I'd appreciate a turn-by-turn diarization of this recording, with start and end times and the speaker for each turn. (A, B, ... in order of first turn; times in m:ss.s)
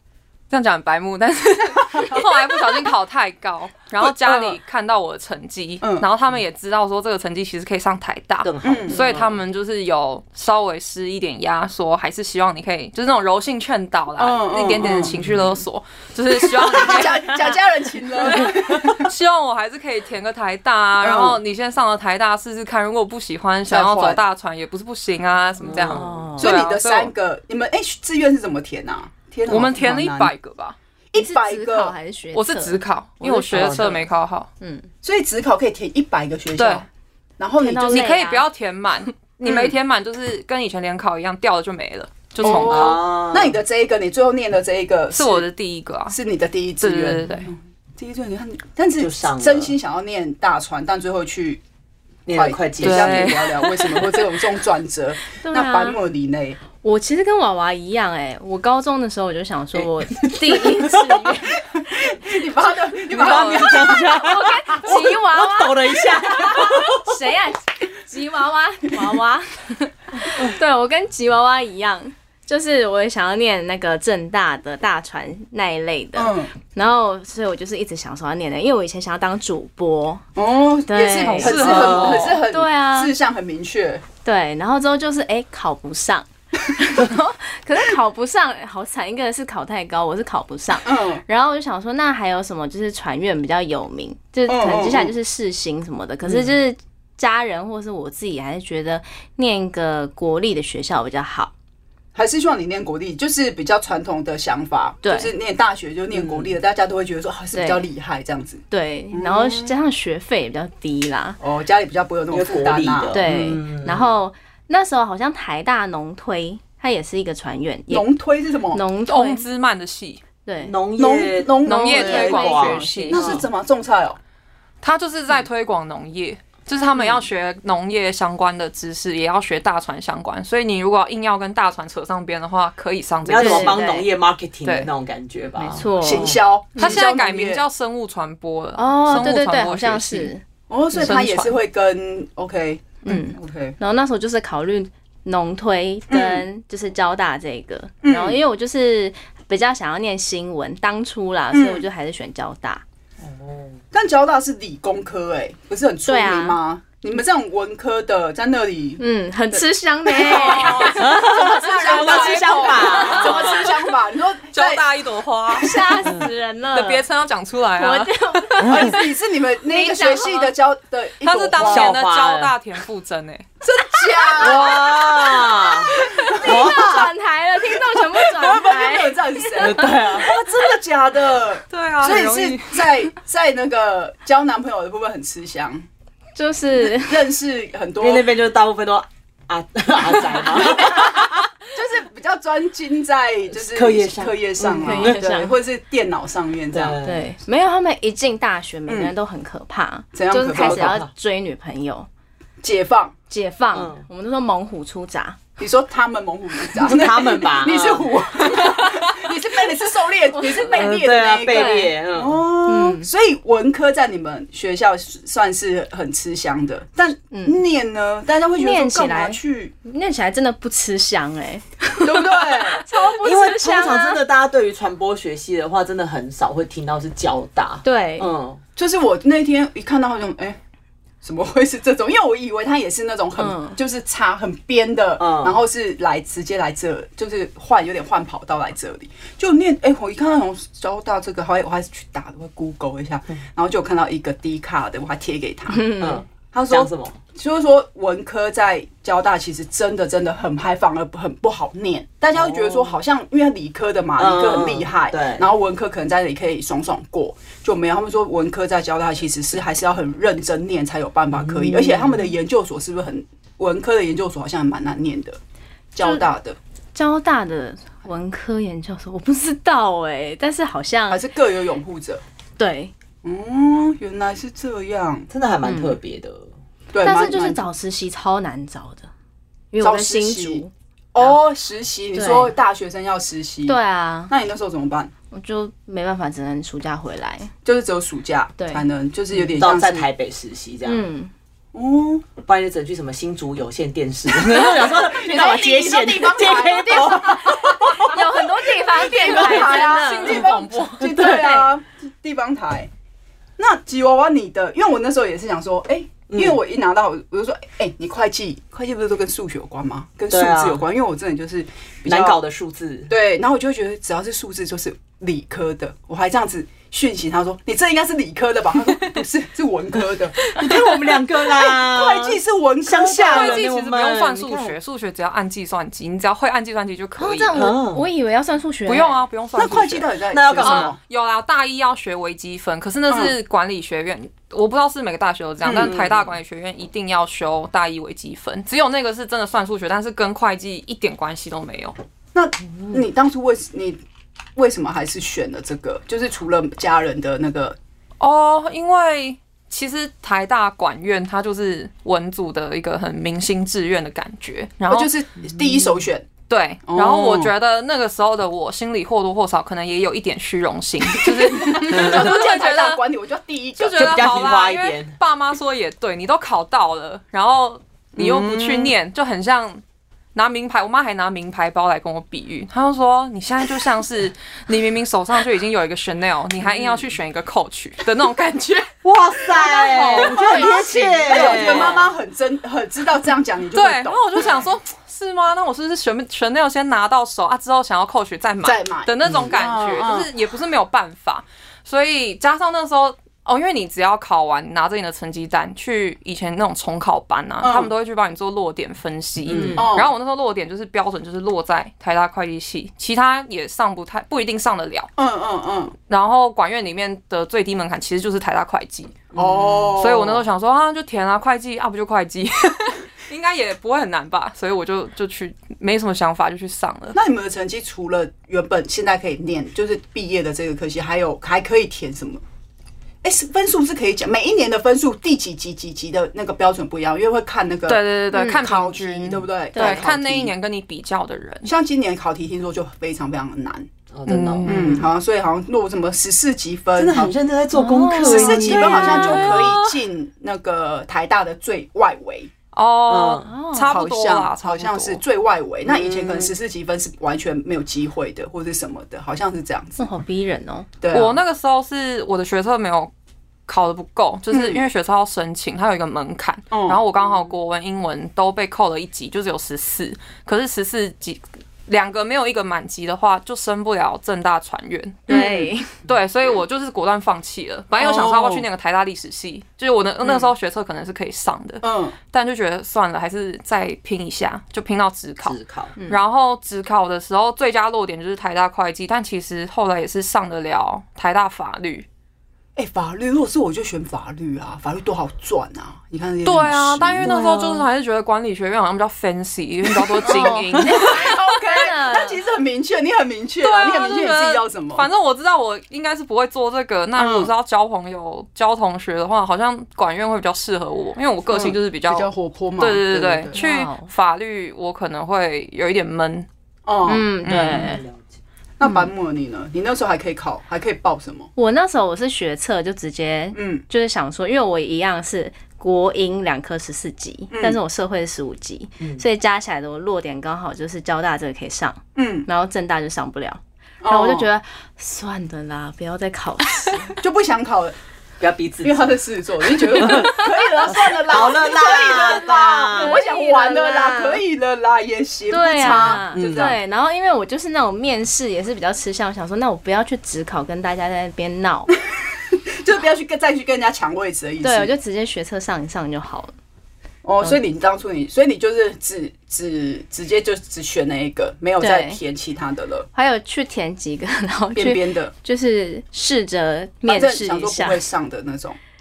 0:00.5-0:17.6 A
0:01.9-0:02.2 B
0:04.0-0:04.6 B
0:05.8-0:06.1 B
0:08.4-0:09.4 C
0:08.6-0:09.0 B
0:14.2-0:15.1 B
0:14.8-0:15.6 C
0:16.4-0:19.1 B
0:18.2-0:27.1 A
0:21.0-0:21.4 B
0:23.7-0:24.2 B
0:25.6-0:26.3 C
0:25.9-0:26.5 D
0:26.4-0:30.3 B
0:29.5-0:30.8 A
0:31.1-0:31.9 B
0:31.1-0:34.0 D
0:32.3-0:34.5 A
0:33.5-0:34.0 C
0:34.6-0:34.9 D
0:35.0-0:36.8 B
0:36.6-0:36.8 A
0:37.4-0:38.1 B
0:37.6-0:38.4 D
0:37.9-0:43.0 A
0:39.4-0:39.8 B
0:42.4-0:45.4 B
0:42.4-0:43.6 C
0:45.1-0:46.2 A
0:46.1-0:51.6 B
0:46.8-0:47.5 A
0:49.0-0:49.8 C
0:52.2-0:53.5 C
0:52.3-0:56.6 B
0:52.8-0:54.2 A
0:55.4-0:56.0 D
0:56.8-1:01.7 D
0:59.7-1:01.0 C
1:01.7-1:04.2 B
1:03.1-1:07.1 C
1:03.1-1:03.9 A
1:04.0-1:20.2 D
1:16.2-1:16.5 B
1:20.4-1:24.0 B
1:20.9-1:23.1 D
1:21.2-1:22.2 A
1:21.5-1:22.4 C
1:24.2-1:41.5 D
1:30.8-1:31.2 B
1:34.5-1:35.1 B
1:36.3-1:36.5 C
1:42.1-1:49.7 B
1:45.0-1:45.3 D
1:46.1-1:46.5 C
1:47.5-1:47.8 D
1:48.7-1:51.4 D
1:51.4-1:53.2 B
1:52.3-1:54.2 C
1:53.1-1:58.1 D
1:57.9-1:58.8 B
1:58.7-1:59.4 D
1:59.1-2:00.2 A
2:00.4-2:00.8 D
2:00.6-2:03.3 C
2:01.0-2:02.4 B
2:01.6-2:03.4 A
2:01.9-2:03.5 D
2:03.1-2:04.2 B
2:04.8-2:14.0 A
2:13.2-2:16.4 C
2:13.4-2:14.0 D
2:14.6-2:14.9 A
2:15.6-2:17.0 D
2:16.0-2:17.6 B
2:16.8-2:20.3 A
2:18.8-2:20.4 D
2:20.7-2:23.8 B
2:20.9-2:21.6 A
2:23.0-2:32.8 D
2:26.1-2:26.4 B
2:28.0-2:28.4 B
2:31.5-2:31.8 B
2:33.2-2:33.8 C
2:33.9-2:44.8 B
2:36.0-2:36.6 D
2:39.0-2:43.6 D
2:40.2-2:43.7 A
2:40.8-2:43.6 C
2:44.5-2:45.8 A
2:45.5-2:47.0 D
2:45.6-2:45.9 B
2:46.7-2:48.7 A
2:47.7-2:49.1 D
2:48.6-2:52.0 B
2:48.6-2:48.9 C
2:49.7-2:50.5 D
2:49.8-2:50.5 A
2:51.2-2:53.4 A
2:51.6-2:52.5 C
2:53.6-2:54.9 B
2:54.4-2:57.1 C
2:55.6-2:57.1 B
2:55.9-3:00.1 D
2:57.8-3:05.9 B
2:59.6-3:00.3 C
3:01.7-3:03.0 A
3:06.4-3:07.3 D
3:06.8-3:08.3 B
3:08.0-3:11.4 C
3:10.5-3:17.0 B
3:13.5-3:15.2 C
3:14.8-3:15.6 D
3:16.7-3:17.3 C
3:17.0-3:22.1 D
3:18.9-3:19.1 B
3:20.1-3:20.9 B
3:20.5-3:21.1 C
3:22.6-3:23.1 B
3:23.3-3:25.4 D
3:23.7-3:24.0 C
3:25.6-3:39.7 B
3:26.8-3:28.5 C
3:30.3-3:30.9 D
3:30.6-3:32.4 C
3:31.4-3:31.9 D
3:32.7-3:33.1 D
3:37.3-3:37.6 D
3:38.6-3:44.2 D
3:42.0-3:42.8 B
3:43.1-3:48.6 C
3:47.8-3:48.3 D
3:48.8-3:50.6 B
3:51.2-4:05.9 B
3:53.4-3:53.8 D
3:55.2-3:55.6 C
4:05.7-4:06.2 D
4:06.0-4:07.2 C
4:06.5-4:25.4 B
4:12.3-4:13.0 C
4:14.2-4:15.4 C
4:21.3-4:22.4 C
4:25.9-4:26.6 B
4:26.0-4:26.2 D
4:26.9-4:31.2 D
4:31.1-4:32.2 B
4:32.6-4:32.9 D
4:33.2-4:35.3 B
4:35.3-4:36.5 C
4:35.6-4:36.0 D
4:36.9-4:37.6 B
4:37.0-4:39.1 D
4:39.7-4:41.4 D
4:39.8-4:43.8 B
4:42.1-4:42.5 D
4:43.6-4:44.3 D
4:44.3-4:45.1 B
4:45.3-4:47.5 D
4:47.6-4:50.1 B
4:48.6-4:48.8 D
4:49.3-4:51.0 C
4:50.8-4:51.3 D
4:51.7-4:52.3 B
4:52.4-4:57.9 C
4:54.3-5:02.9 B
4:57.9-5:01.7 D
4:59.3-5:01.3 A
5:03.6-5:12.4 B
5:06.3-5:06.6 C
5:10.3-5:10.8 C
5:12.0-5:13.1 C
5:13.1-5:23.7 B
5:20.5-5:24.8 C
5:23.2-5:27.6 A
5:27.2-5:29.2 D
5:27.5-5:28.0 C
5:28.9-5:30.1 A
5:29.5-5:31.0 B
5:30.3-5:30.9 C
5:30.6-5:42.0 A
5:33.1-5:33.4 B
5:35.6-5:36.1 B
5:35.7-5:36.4 C
5:42.4-5:44.0 B
5:44.6-5:47.8 B
5:48.2-5:55.1 A
5:54.9-5:56.3 B
5:55.6-5:55.8 C
5:56.5-6:03.0 A
5:56.9-5:57.5 B
6:01.1-6:04.4 B
6:01.9-6:02.4 C
6:03.8-6:09.8 A
6:03.9-6:05.1 C
6:08.2-6:08.9 C
6:10.4-6:20.8 A
6:19.0-6:22.1 C
6:20.2-6:24.6 B
6:20.5-6:20.8 D
6:21.4-6:21.6 D
6:21.5-6:21.9 A
6:23.7-6:45.1 A
6:28.6-6:30.3 B
6:29.2-6:29.5 C
6:37.6-6:37.9 B
6:39.4-6:39.9 C
6:39.8-6:40.1 B
6:45.2-6:45.9 B
6:46.1-6:49.3 A
6:49.3-6:49.9 C
6:49.4-6:50.4 B
6:50.0-6:57.2 A
6:57.1-7:02.4 B
7:03.2-7:10.5 B
7:07.9-7:11.7 A
7:08.3-7:08.6 D
7:09.7-7:10.1 D
7:11.6-7:13.9 B
7:14.1-7:15.0 C
7:14.3-7:15.0 A
7:14.7-7:17.4 B
7:17.0-7:19.8 C
7:17.7-7:19.5 D
7:18.2-7:22.5 B
7:19.1-7:19.8 A
7:22.7-7:25.2 A
7:23.1-7:23.5 C
7:23.4-7:24.0 D
7:23.9-7:30.1 B
7:25.8-7:26.5 C
7:30.0-7:30.9 D
7:31.0-7:31.4 B
7:31.1-7:33.1 A
7:33.7-8:02.0 A
7:34.5-7:34.8 B
7:36.7-7:37.4 B
7:45.3-7:46.0 D
7:45.3-7:45.7 B
7:48.0-7:48.6 B
7:51.8-7:52.2 B
7:55.4-7:55.9 C
8:02.8-8:07.3 B
8:06.4-8:11.2 A
8:10.2-8:15.1 B
8:10.2-8:12.4 D
8:13.6-8:26.5 A
8:17.2-8:17.5 B
8:21.5-8:23.6 B
8:23.5-8:24.1 D
8:26.9-8:27.3 B
8:27.0-8:28.0 D
8:27.4-8:28.0 A
8:27.5-8:28.2 C
8:28.8-8:31.5 B
8:28.8-8:29.1 D
8:31.6-8:47.2 D
8:33.5-8:33.8 B
8:37.5-8:37.8 B
8:42.2-8:42.4 B
8:44.0-8:44.5 B
8:47.2-8:47.9 B
8:48.4-8:49.2 C
8:48.8-8:56.8 B
8:49.8-8:53.2 C
8:50.0-8:50.4 D
8:52.9-8:54.4 D
8:55.5-9:01.9 D
8:55.8-8:56.7 C
9:02.8-9:04.9 B
9:04.6-9:06.5 D
9:07.2-9:13.1 B
9:11.8-9:12.2 D
9:13.1-9:18.0 D
9:14.8-9:15.3 B
9:17.0-9:18.8 B